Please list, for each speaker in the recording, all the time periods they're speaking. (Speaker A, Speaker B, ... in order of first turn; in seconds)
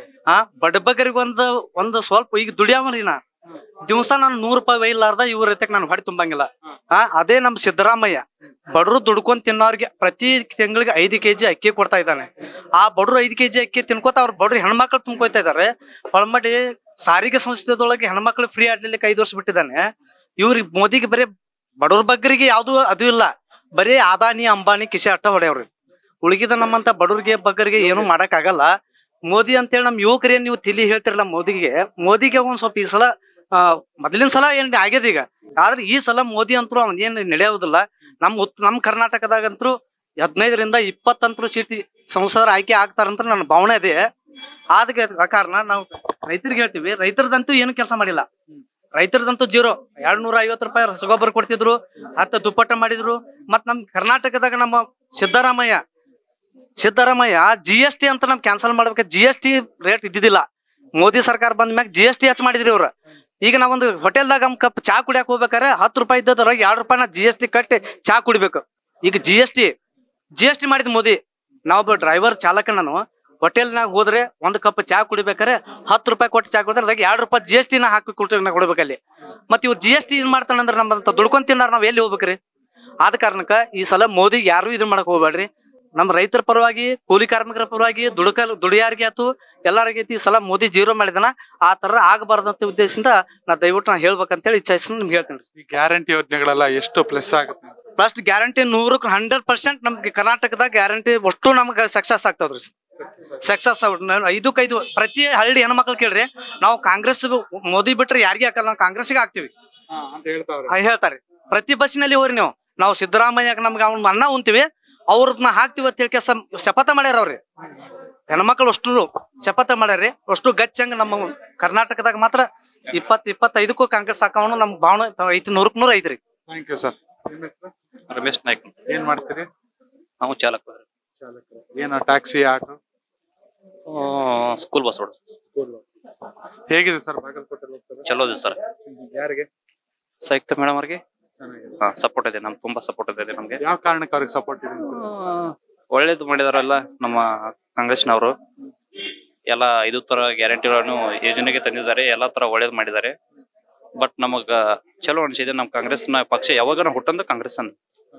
Speaker A: 0.3-3.2, 3.9-19.8, 20.4-21.3, 21.8-25.7, 26.2-28.7, 29.3-44.0, 44.8-48.3, 49.0-55.8, 56.8-60.5, 61.0-62.9, 63.4-69.7, 70.4-79.0, 79.5-82.4, 83.0-95.4, 98.0-102.7, 103.4-109.5, 110.7-117.4, 118.3-126.2
Speaker B: 95.6-97.8, 109.9-110.7, 126.5-127.7, 128.9-129.5, 131.2-132.8, 135.5-135.8, 136.7-138.1, 138.9-139.5, 141.4-141.7, 143.6-145.1
Speaker C: 128.1-128.8, 130.2-130.8, 133.9-135.2, 138.1-138.6, 140.2-141.0, 141.8-143.6, 145.1-148.3, 149.5-153.2, 154.0-157.7